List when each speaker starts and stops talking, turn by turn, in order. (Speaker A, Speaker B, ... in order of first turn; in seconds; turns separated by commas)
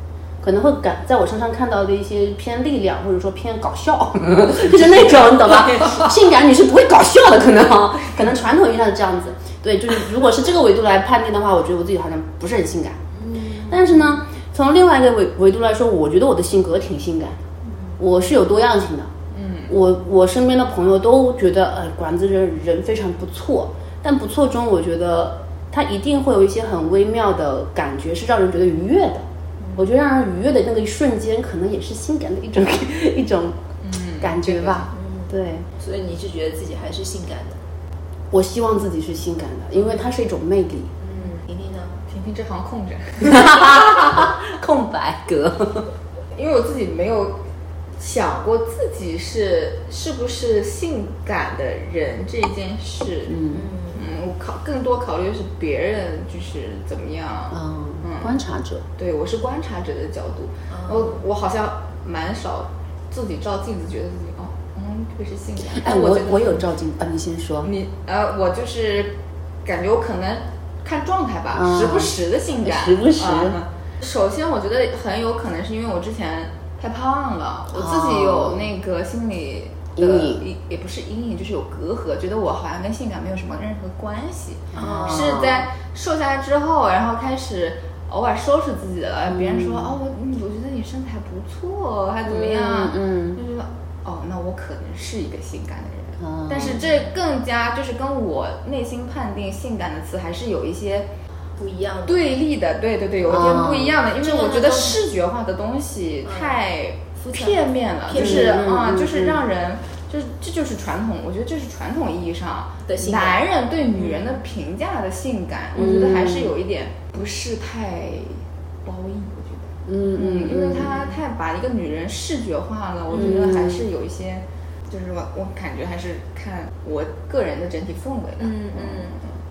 Speaker A: 0.4-13.0, Speaker B: 13.2-14.0, Speaker A: 13.7-17.4, Speaker B: 17.6-17.9, Speaker A: 18.0-19.1, Speaker C: 19.3-19.7, Speaker A: 19.7-29.2, Speaker A: 29.8-33.6, Speaker C: 33.8-34.9, Speaker A: 34.2-35.7, Speaker B: 34.9-37.6, Speaker A: 38.3-40.9, Speaker B: 41.0-42.0, Speaker C: 42.1-43.6, Speaker A: 43.2-45.9, Speaker C: 46.3-47.4, Speaker C: 48.0-53.4, Speaker A: 53.3-53.6, Speaker B: 53.5-54.0, Speaker C: 53.9-58.4, Speaker A: 57.5-58.8, Speaker C: 59.0-66.6, Speaker B: 60.7-61.2, Speaker A: 65.7-67.7, Speaker C: 67.6-101.1, Speaker A: 71.5-73.6, Speaker A: 77.7-78.7, Speaker A: 80.0-80.5, Speaker A: 84.7-85.6, Speaker B: 84.8-85.4, Speaker A: 89.3-90.0, Speaker A: 92.2-93.4, Speaker A: 96.2-96.8, Speaker B: 101.6-102.3, Speaker C: 102.0-129.3, Speaker A: 103.2-104.0, Speaker B: 104.2-105.0, Speaker B: 106.2-106.6, Speaker B: 107.2-108.6, Speaker A: 108.1-109.4, Speaker B: 112.8-113.4, Speaker B: 114.0-114.3, Speaker A: 115.7-116.5, Speaker A: 119.9-121.1, Speaker A: 123.1-123.9, Speaker B: 128.4-129.1